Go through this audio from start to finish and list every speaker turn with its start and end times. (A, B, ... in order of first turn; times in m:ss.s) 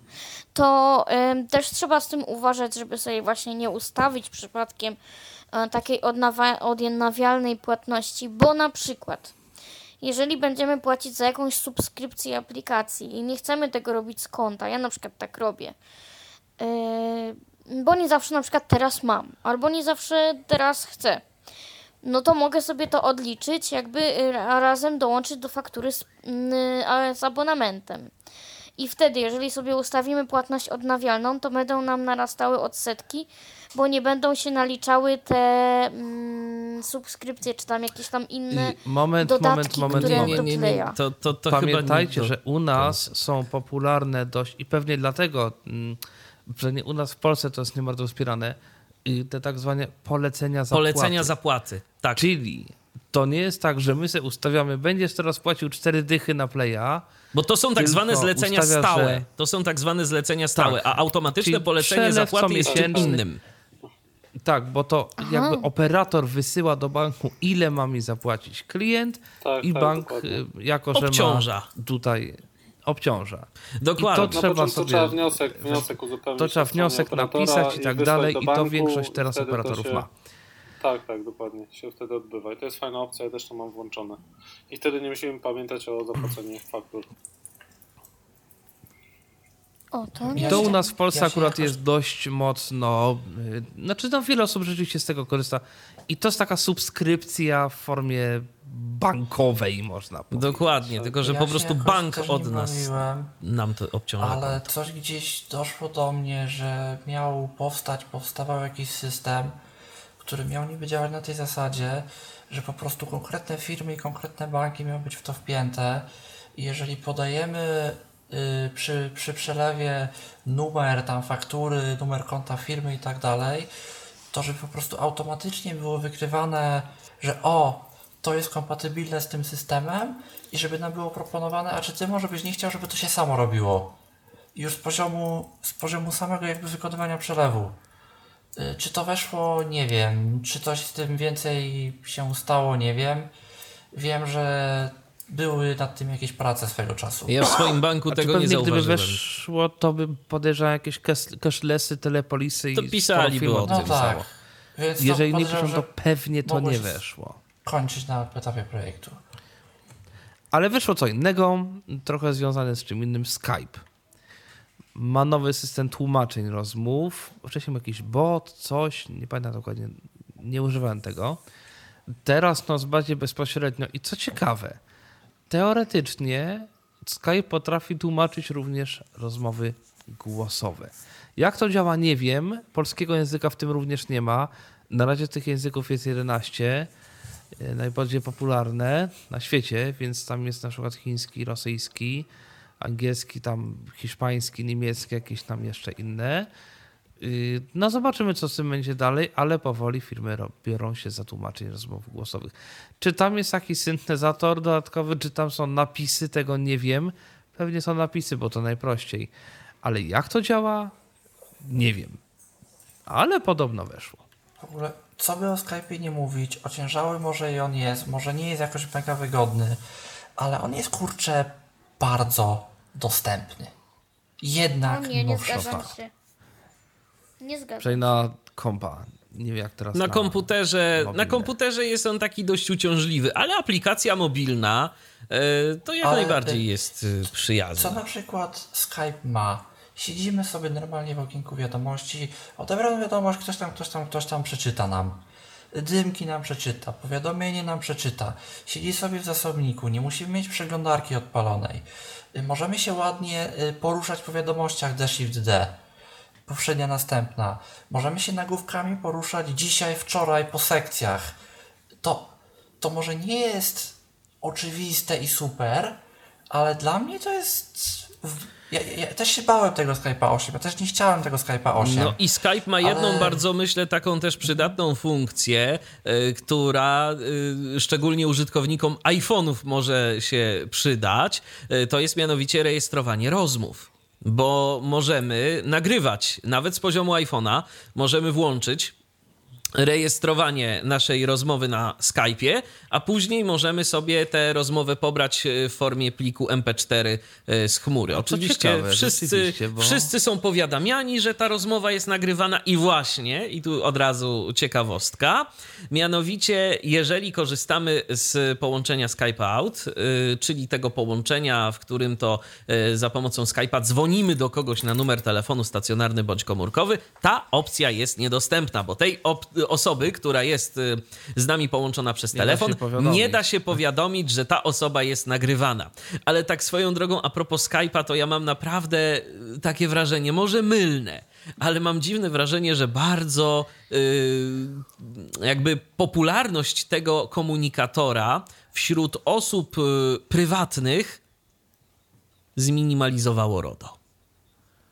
0:00.5-0:05.0 A
0:05.5-0:09.3 A
0:10.0-0:15.8 A
0:16.6-0:21.2 A
0:22.0-0:28.1 A
0:28.8-0:41.0 A
0:38.5-0:51.4 B
0:39.9-0:43.1 C
0:50.7-0:52.3 C
0:52.2-0:57.1 B
0:57.3-1:03.4 C
0:57.8-0:59.3 B
1:00.6-1:03.2 B
1:02.7-1:03.2 D
1:04.4-1:20.1 B
1:05.2-1:05.7 A
1:09.4-1:10.4 D
1:11.0-1:11.7 C
1:13.8-1:14.4 C
1:14.2-1:20.0 D
1:20.8-1:27.1 D
1:29.9-1:30.8 A
1:30.3-1:31.8 E
1:30.3-1:40.9 B
1:40.3-1:44.6 C
1:41.0-1:41.3 D
1:41.2-1:43.3 E
1:44.2-1:49.6 E
1:50.2-2:03.7 E
2:04.3-2:14.0 E
2:14.6-2:17.8 E
2:18.6-2:23.3 E
2:23.9-2:27.8 E
2:27.3-2:29.2 C
2:28.1-2:34.3 B
2:32.8-2:34.0 C
2:33.7-2:35.9 E
2:35.0-2:37.4 B
2:36.4-2:37.0 E
2:37.6-2:39.2 E
2:40.5-2:43.8 B
2:45.0-2:51.4 B
2:52.2-2:54.8 B
2:55.5-3:06.9 B
3:07.6-3:12.3 B
3:12.8-3:16.5 B
3:17.2-3:30.9 B
3:31.6-3:32.2 B
3:33.1-3:34.2 B
3:34.6-3:39.8 E
3:40.4-3:43.7 E
3:44.4-3:46.0 E
3:44.9-3:46.1 A
3:45.5-3:45.8 B
3:47.4-3:48.2 A
3:47.8-3:51.5 B
3:49.9-3:58.0 C
3:56.0-3:56.7 E
3:57.8-4:15.8 E
4:16.5-4:21.4 E
4:22.0-4:32.2 E
4:31.8-4:48.9 C
4:32.8-4:33.4 E
4:34.4-4:34.7 E
4:49.8-5:41.2 C
4:58.1-5:00.1 B
5:22.3-5:23.8 B
5:42.6-5:44.0 C